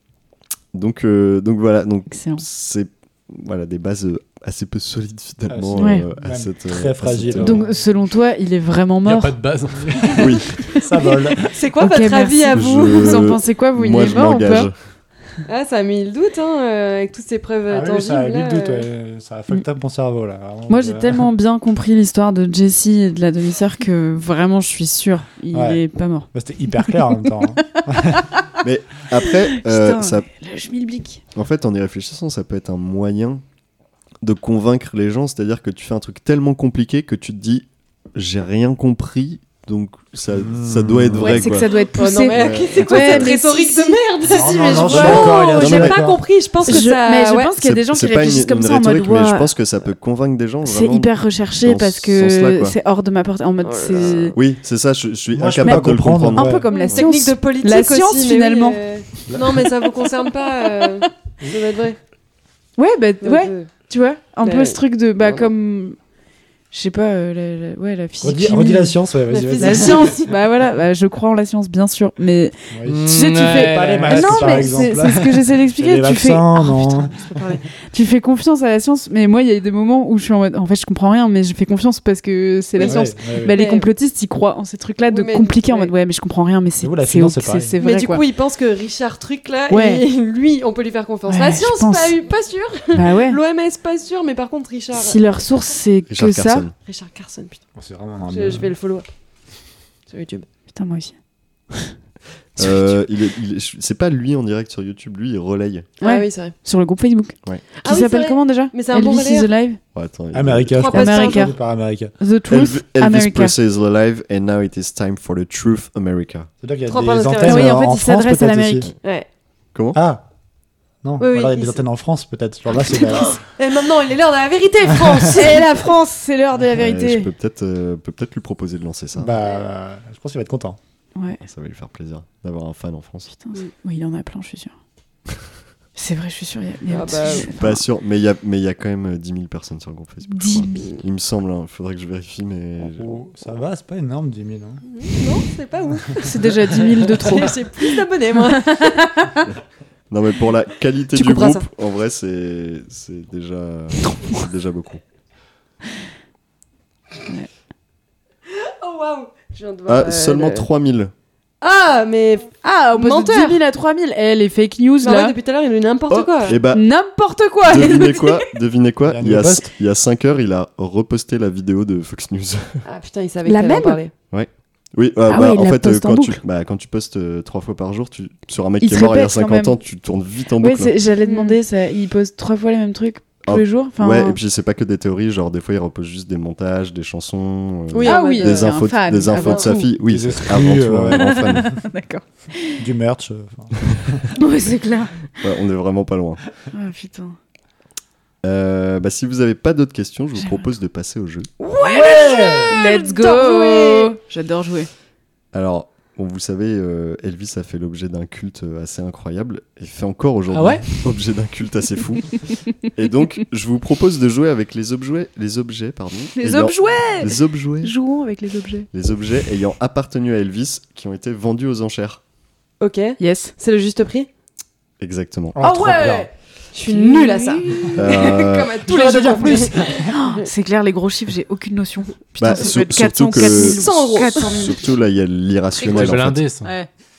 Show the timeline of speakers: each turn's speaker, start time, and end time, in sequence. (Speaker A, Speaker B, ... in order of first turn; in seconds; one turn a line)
Speaker A: 0.7-7.6
Speaker B: 2.1-2.4
Speaker C: 5.5-8.0
Speaker B: 5.8-6.1
Speaker B: 7.4-9.4
Speaker D: 9.0-10.3
Speaker A: 10.2-10.6
Speaker C: 10.7-11.5
Speaker E: 11.5-13.3
Speaker B: 11.8-14.7
Speaker A: 12.5-14.7
Speaker E: 15.5-18.9
Speaker C: 17.7-21.2
Speaker B: 20.7-26.3
Speaker C: 25.5-28.2
Speaker B: 26.8-28.4
Speaker A: 28.6-30.3
Speaker B: 29.2-31.2
Speaker A: 31.3-33.4
Speaker A: 34.2-41.7
Speaker C: 40.3-41.4
Speaker B: 41.2-45.5
Speaker E: 41.7-47.5
Speaker A: 42.2-43.3
Speaker C: 44.3-46.2
Speaker A: 44.9-46.1
Speaker A: 46.6-46.9
Speaker B: 46.6-49.5
Speaker A: 47.6-52.8
Speaker B: 50.6-54.4
Speaker E: 53.6-54.4
Speaker A: 54.3-57.0
Speaker C: 55.3-56.7
Speaker B: 55.6-58.8
Speaker E: 56.7-62.0
Speaker C: 59.3-59.6
Speaker B: 62.8-66.0
Speaker E: 63.2-63.7
Speaker E: 64.4-65.5
Speaker B: 66.7-69.0
Speaker C: 68.2-70.1
Speaker E: 69.3-70.2
Speaker B: 69.6-88.2
Speaker C: 72.7-77.5
Speaker D: 72.8-74.8
Speaker E: 82.8-83.9
Speaker C: 82.8-83.6
Speaker E: 85.1-85.9
Speaker C: 86.8-87.8
Speaker E: 87.8-95.3
Speaker B: 89.7-90.0
Speaker B: 91.3-92.2
Speaker B: 92.9-93.4
Speaker B: 94.9-96.7
Speaker A: 96.1-96.7
Speaker E: 96.8-97.6
Speaker C: 97.7-98.8
Speaker E: 98.3-99.0
Speaker E: 100.1-100.5
Speaker B: 100.7-101.1
Speaker A: 102.5-105.9
Speaker E: 106.0-106.5
Speaker B: 106.0-109.8
Speaker E: 107.8-109.5
Speaker A: 109.9-111.0
Speaker C: 110.3-112.1
Speaker E: 110.7-111.6
Speaker B: 110.9-111.6
Speaker B: 112.2-113.5
Speaker A: 112.5-116.5
Speaker C: 116.6-118.9
Speaker E: 116.9-117.8
Speaker B: 117.4-118.9
Speaker E: 119.0-119.3
Speaker A: 119.7-120.0
Speaker C: 119.9-120.2
Speaker C: 121.0-123.4
Speaker E: 121.2-121.8
Speaker E: 123.3-125.9
Speaker B: 125.3-127.3
Speaker A: 126.6-129.4
Speaker C: 129.2-130.8
Speaker B: 131.1-131.4
Speaker A: 131.4-133.3
Speaker B: 133.3-134.7
Speaker B: 135.9-137.8
Speaker E: 136.9-137.6
Speaker A: 137.5-143.2
Speaker B: 140.3-140.9
Speaker C: 143.0-144.8
Speaker E: 144.8-148.9
Speaker B: 146.2-149.5
Speaker A: 150.1-155.0
Speaker E: 151.1-151.6
Speaker E: 158.5-160.7
Speaker A: 159.9-161.1
Speaker E: 161.6-163.6
Speaker B: 162.6-165.3
Speaker E: 165.0-166.6
Speaker A: 166.1-166.9
Speaker B: 166.7-168.5
Speaker A: 167.6-172.8
Speaker C: 169.1-169.7
Speaker E: 172.8-174.1
Speaker B: 173.4-174.0
Speaker A: 174.3-180.9
Speaker B: 175.3-176.4
Speaker B: 178.8-179.8
Speaker B: 180.6-184.4
Speaker E: 181.2-181.6
Speaker A: 183.4-191.8
Speaker E: 187.9-189.9
Speaker B: 188.0-189.8
Speaker C: 190.0-191.5
Speaker B: 191.1-192.8
Speaker C: 192.8-194.2
Speaker B: 194.3-195.2
Speaker A: 195.4-196.4
Speaker B: 196.7-197.3
Speaker A: 198.4-201.5
Speaker B: 201.6-204.9
Speaker C: 201.8-202.8
Speaker E: 201.8-204.1
Speaker A: 205.5-218.0
Speaker D: 210.5-210.9
Speaker B: 216.3-218.9
Speaker A: 218.9-222.2
Speaker E: 222.8-224.3
Speaker B: 223.2-223.5
Speaker A: 225.0-226.0
Speaker C: 225.5-226.3
Speaker B: 225.6-226.3
Speaker E: 226.7-230.5
Speaker B: 226.8-228.1
Speaker A: 227.9-228.8
Speaker C: 228.8-230.1
Speaker B: 230.1-234.8
Speaker A: 232.4-236.5
Speaker E: 233.3-234.8
Speaker D: 235.8-236.7